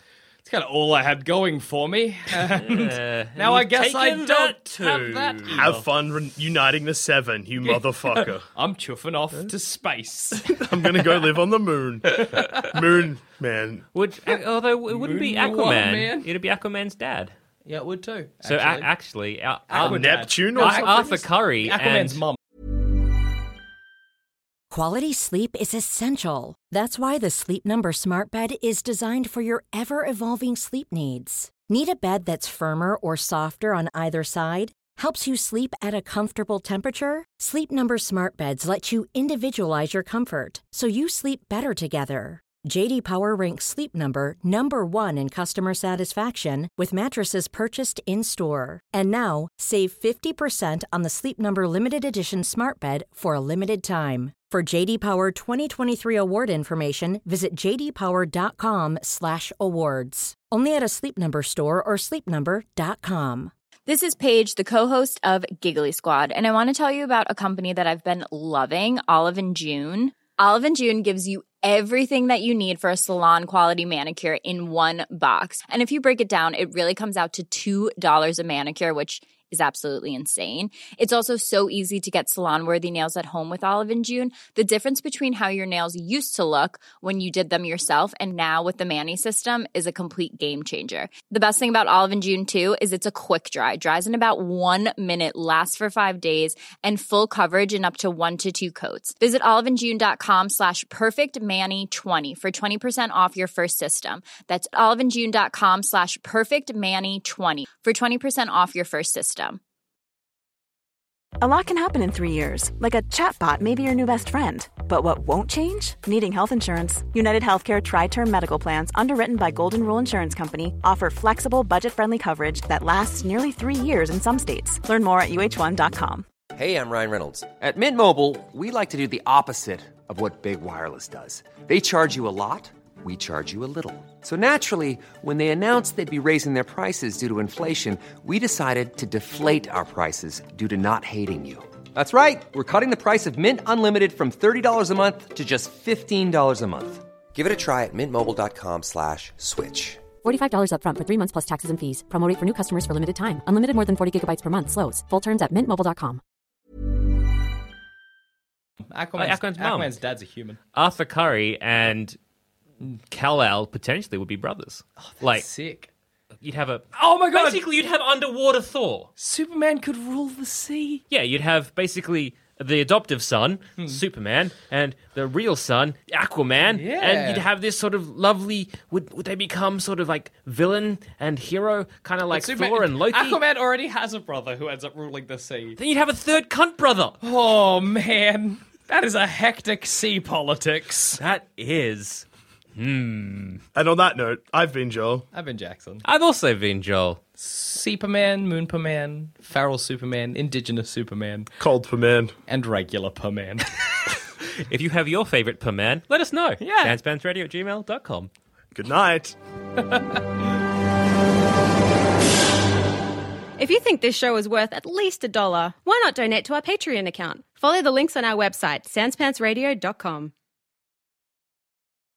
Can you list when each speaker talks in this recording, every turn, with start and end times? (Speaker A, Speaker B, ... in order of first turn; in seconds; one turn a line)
Speaker A: 0.4-5.8
Speaker B: 2.4-5.7
Speaker C: 5.5-8.5
Speaker A: 7.6-10.7
Speaker C: 10.6-13.8
Speaker A: 12.2-12.8
Speaker B: 13.9-17.3
Speaker A: 14.9-16.3
Speaker A: 17.6-18.9
Speaker B: 18.4-22.2
Speaker A: 19.7-22.4
Speaker C: 19.8-21.1
Speaker D: 24.7-63.5
Speaker E: 63.9-109.6
Speaker F: 111.4-126.2
Speaker G: 126.5-150.1
Speaker H: 150.2-156.2
Speaker A: 158.9-160.6
Speaker B: 159.2-159.9
Speaker B: 160.7-162.2
Speaker B: 162.9-165.5
Speaker A: 165.0-165.9
Speaker B: 166.4-169.1
Speaker A: 166.9-167.6
Speaker A: 169.2-171.0
Speaker B: 171.1-183.4
Speaker A: 176.7-177.4
Speaker A: 182.3-185.8
Speaker B: 185.8-187.2
Speaker A: 187.2-191.2
Speaker B: 191.2-193.6
Speaker C: 193.7-195.2
Speaker A: 195.3-196.0
Speaker B: 196.0-197.2
Speaker A: 197.4-201.5
Speaker C: 201.6-202.3
Speaker A: 202.5-203.7
Speaker B: 204.7-208.3
Speaker A: 206.6-207.0
Speaker C: 208.7-209.3
Speaker A: 209.9-210.2
Speaker I: 213.6-220.3